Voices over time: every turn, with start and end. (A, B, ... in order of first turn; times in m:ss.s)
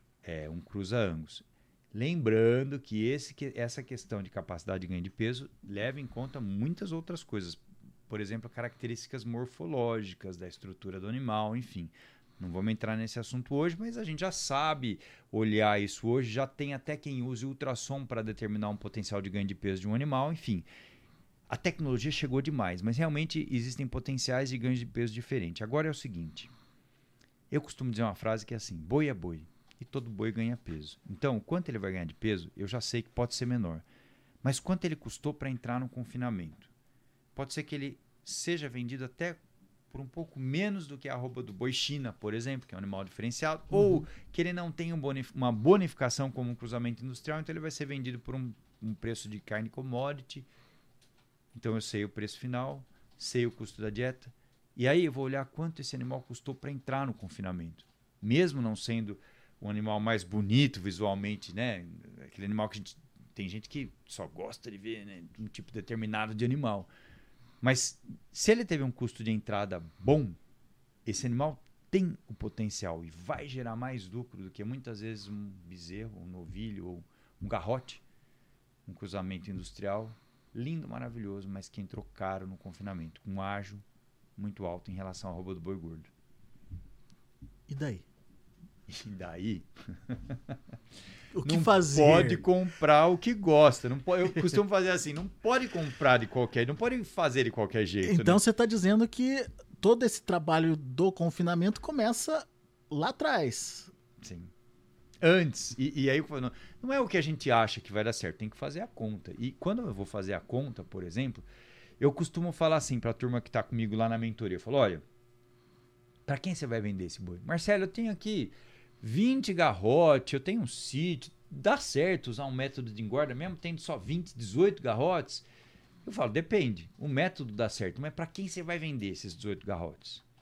0:00.2-0:20.7 A
0:21.5-0:26.5 A
0:27.5-0:33.8 A
0:34.4-0:36.7 A
0:37.4-0:50.5 A
0:51.6-1:06.9 A
1:07.6-1:10.4 A
1:11.0-1:18.0 A
1:18.9-1:23.8 A
1:24.4-1:26.1 A
1:27.7-1:28.1 B
1:28.9-1:30.6 A
1:31.3-1:32.4 B
1:31.4-1:38.4 A
1:38.0-1:43.9 B
1:44.2-1:44.5 A
1:45.2-1:51.5 A
1:52.0-1:55.0 A
1:56.3-2:05.5 A
2:06.0-2:10.2 A